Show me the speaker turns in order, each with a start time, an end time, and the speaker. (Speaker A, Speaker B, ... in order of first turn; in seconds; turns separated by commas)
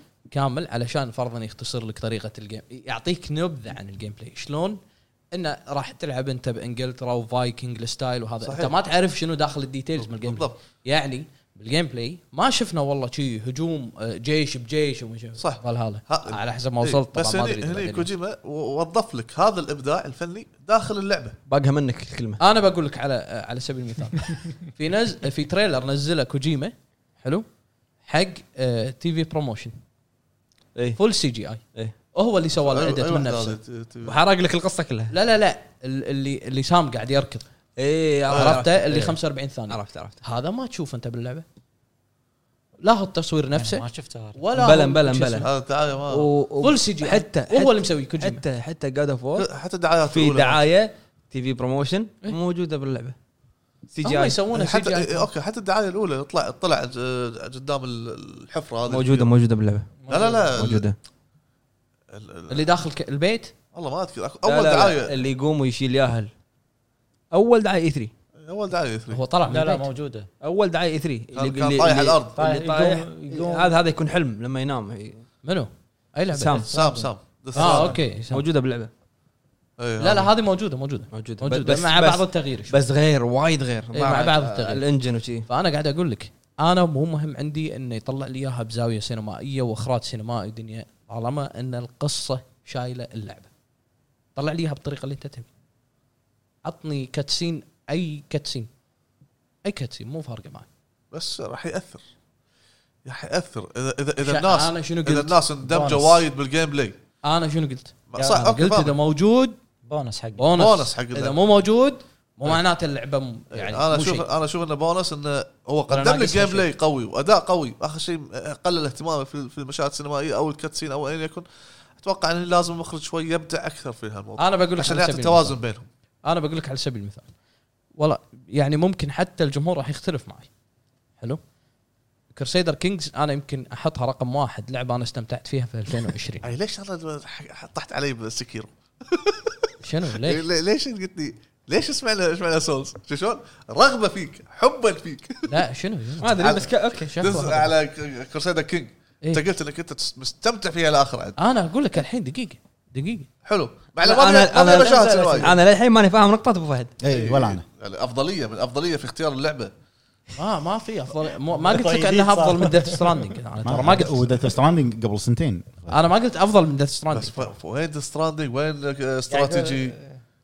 Speaker A: 0.3-4.8, Speaker A: 5.3-18.1, Speaker B: 8.4-8.7, Speaker B: 10.0-10.6, Speaker B: 15.4-21.4, Speaker C: 21.5-22.4, Speaker A: 22.4-27.4, Speaker A: 28.0-29.7, Speaker C: 30.7-31.0, Speaker A: 30.9-31.6, Speaker A: 32.1-33.6, Speaker B: 32.6-34.2, Speaker C: 34.0-35.1, Speaker A: 35.1-37.5, Speaker C: 37.8-40.2, Speaker B: 38.3-38.6, Speaker A: 38.3-41.4, Speaker A: 42.8-45.5, Speaker D: 43.6-44.4, Speaker C: 44.5-45.5, Speaker B: 45.4-46.3, Speaker C: 46.1-49.5, Speaker A: 46.6-48.4, Speaker B: 49.4-50.6, Speaker C: 50.1-53.1, Speaker C: 53.9-54.4, Speaker A: 54.0-55.3, Speaker B: 54.5-59.3, Speaker C: 58.9-60.0, Speaker D: 60.0-60.5, Speaker B: 60.1-60.9, Speaker C: 60.5-61.0, Speaker B: 62.1-62.7, Speaker A: 62.5-63.5, Speaker B: 63.7-65.1, Speaker C: 64.4-66.3, Speaker C: 67.3-68.1, Speaker B: 68.4-69.2, Speaker A: 69.1-69.9, Speaker D: 69.4-70.3, Speaker C: 70.4-75.2, Speaker B: 71.3-72.4, Speaker D: 72.3-73.8, Speaker A: 75.4-76.7, Speaker C: 76.3-76.7, Speaker B: 76.7-78.0, Speaker D: 76.7-77.9, Speaker A: 77.5-78.4, Speaker C: 78.1-78.9, Speaker B: 79.8-80.3, Speaker A: 80.0-82.7, Speaker C: 81.1-85.5, Speaker A: 83.9-84.8, Speaker A: 85.5-93.5, Speaker A: 94.3-95.5, Speaker A: 96.6-98.7, Speaker A: 99.6-100.7, Speaker B: 101.1-102.0, Speaker B: 103.0-107.0, Speaker A: 104.2-105.4, Speaker D: 105.6-106.2, Speaker A: 107.2-109.6, Speaker B: 108.1-109.0, Speaker D: 109.8-110.5, Speaker A: 110.4-114.3, Speaker B: 110.5-111.4, Speaker B: 113.5-121.5, Speaker A: 115.9-116.7, Speaker B: 122.0-125.8, Speaker A: 124.4-125.6, Speaker A: 126.2-127.3, Speaker A: 128.0-130.5, Speaker A: 132.3-136.4, Speaker B: 136.4-145.6, Speaker A: 139.8-140.4, Speaker A: 145.5-147.7, Speaker C: 146.2-147.4, Speaker B: 146.4-151.4, Speaker A: 151.4-153.3, Speaker B: 153.4-155.6, Speaker C: 154.0-156.9, Speaker E: 157.0-157.6, Speaker B: 157.1-159.7, Speaker A: 160.3-164.3, Speaker D: 161.7-163.1, Speaker E: 163.6-166.0, Speaker A: 165.9-167.5, Speaker B: 167.1-169.9, Speaker D: 169.3-170.2